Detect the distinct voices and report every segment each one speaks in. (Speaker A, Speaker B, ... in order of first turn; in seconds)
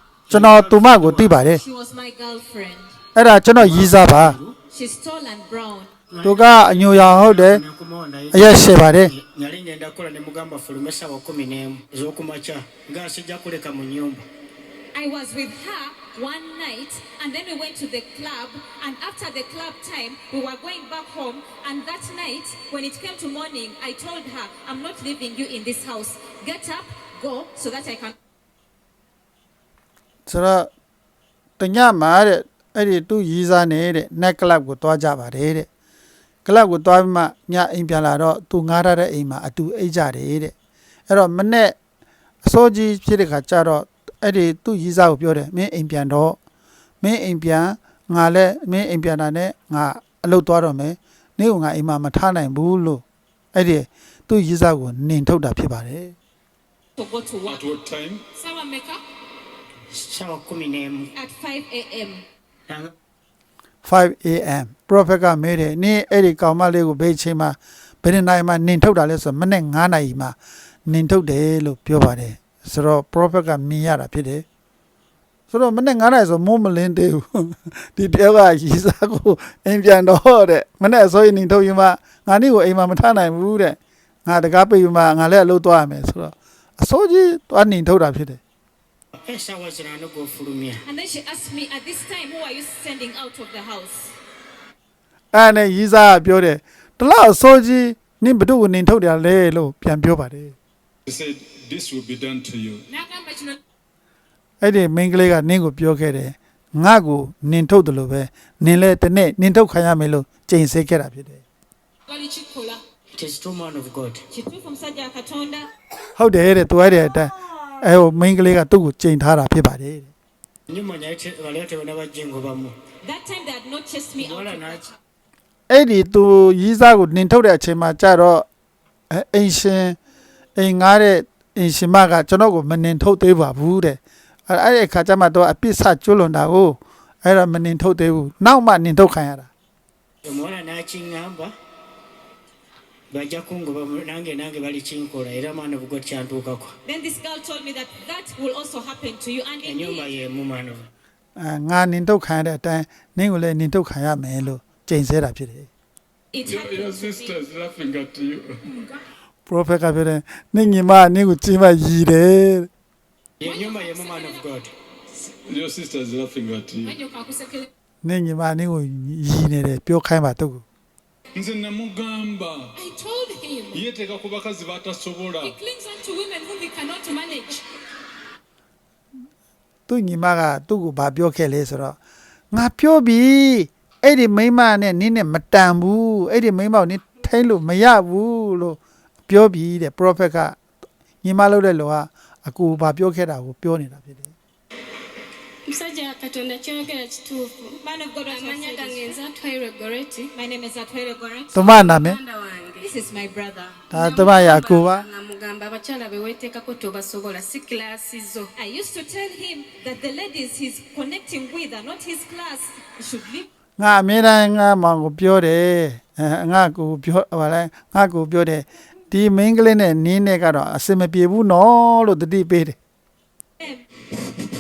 Speaker A: 0.3-1.4, 3.6-4.5, 6.1-14.3, 59.9-61.1, 62.7-62.9, 89.1-90.8, 113.2-114.2, 120.7-122.8, 124.2-124.8, 140.2-141.5, 143.1-146.8, 149.6-150.9, 163.4-164.7
Speaker B: 0.3-1.6, 3.1-4.4, 6.2-7.6, 8.3-9.1, 30.3-30.7, 31.6-35.7, 36.5-40.5, 41.1-41.8, 42.4-46.4, 47.0-53.0, 53.5-56.1, 63.8-74.4, 75.5-88.4, 95.3-100.5, 104.6-111.4, 116.2-120.1, 125.7-128.5, 129.1-130.0, 130.6-139.5, 151.4-155.7, 159.5-162.7, 168.0-170.6, 179.9-182.0, 182.5-190.6, 191.2-194.3, 201.6-202.2, 203.9-205.1, 213.8-222.8
Speaker C: 1.5-3.0, 4.7-5.9, 14.9-28.2, 57.0-57.6, 61.2-62.2, 90.8-94.1, 114.3-115.7, 123.0-124.9, 146.8-150.1, 156.3-157.3, 197.8-199.2, 200.3-202.0, 202.8-203.8, 208.6-213.5
Speaker D: 57.5-58.2, 101.1-102.8, 156.4-158.7, 165.5-167.0, 171.3-172.8, 173.7-175.6
Speaker E: 58.4-59.0, 102.9-103.6, 112.1-112.8, 158.7-159.0, 163.4-164.5, 166.8-167.7, 172.8-173.8, 175.4-177.6
Speaker F: 195.7-197.8, 198.3-200.3, 202.1-202.8, 204.0-208.5